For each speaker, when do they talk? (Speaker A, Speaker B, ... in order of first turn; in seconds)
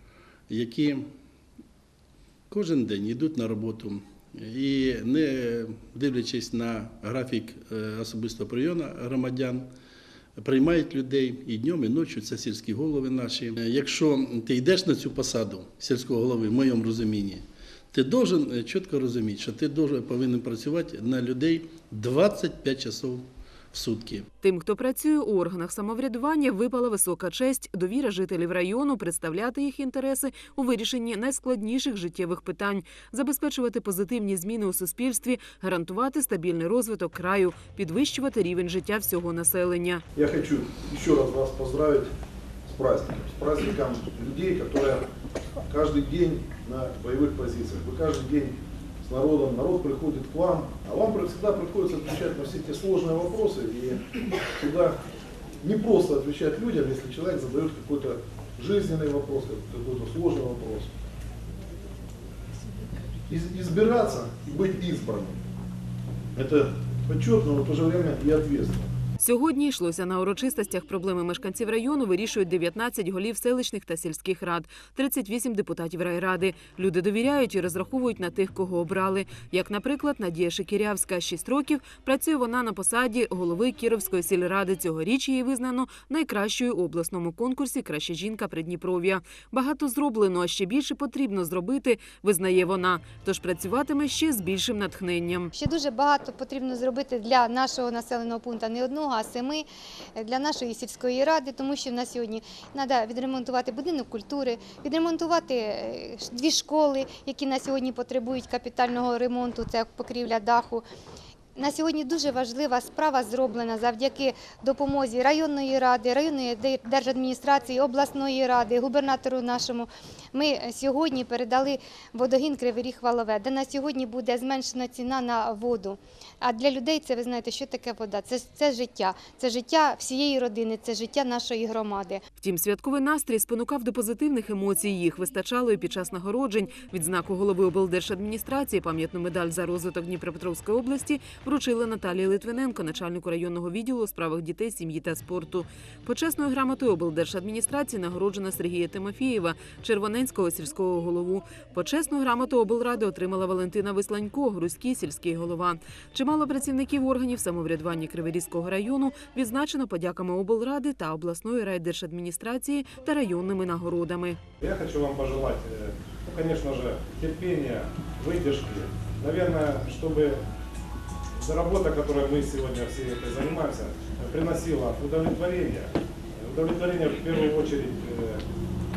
Speaker A: 0.5-1.1, 2.5-9.7, 10.4-24.2
Speaker B: 24.4-40.0, 69.2-95.5, 132.4-164.4
Speaker C: 40.1-42.1, 42.6-45.0, 45.7-55.0, 55.6-60.9, 63.3-65.4, 66.3-68.8
Speaker D: 95.5-99.6, 100.2-110.8, 111.5-132.2
Speaker E: 164.6-170.4, 171.4-178.4